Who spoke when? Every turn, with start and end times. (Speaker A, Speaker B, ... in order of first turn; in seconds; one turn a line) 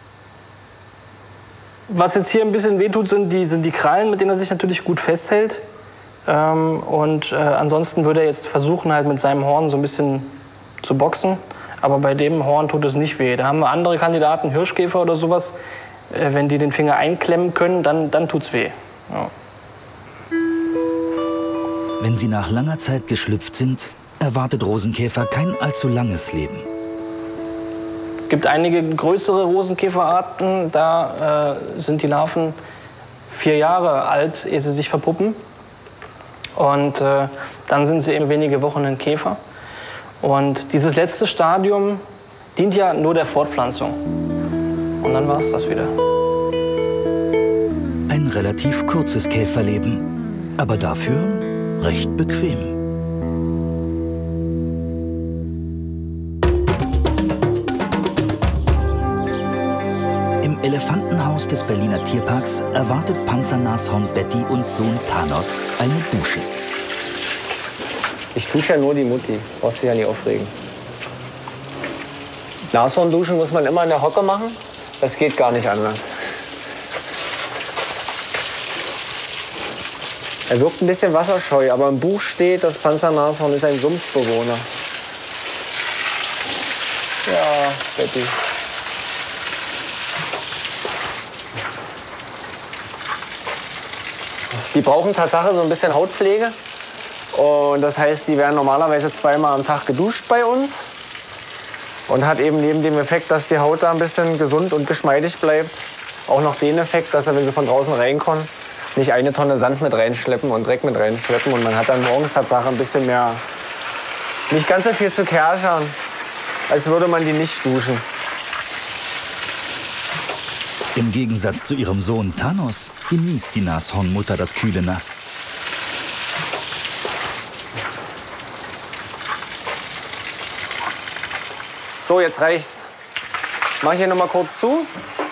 Speaker A: 1.9-5.7
Speaker A: 6.3-15.6
Speaker A: 16.1-19.3
Speaker B: 22.0-26.7
Speaker A: 28.3-32.6
Speaker A: 33.3-35.4
Speaker A: 36.6-39.4
Speaker A: 40.2-44.0
Speaker A: 45.0-45.9
Speaker B: 48.1-52.8
Speaker B: 60.4-66.5
Speaker C: 68.3-70.5
Speaker C: 72.7-76.0
Speaker C: 80.5-84.7
Speaker C: 87.2-88.3
Speaker C: 94.6-96.6
Speaker C: 97.3-100.9
Speaker C: 102.1-113.4
Speaker C: 114.5-116.0
Speaker C: 116.7-118.0
Speaker B: 121.0-125.2
Speaker C: 132.0-132.9
Speaker C: 133.8-134.9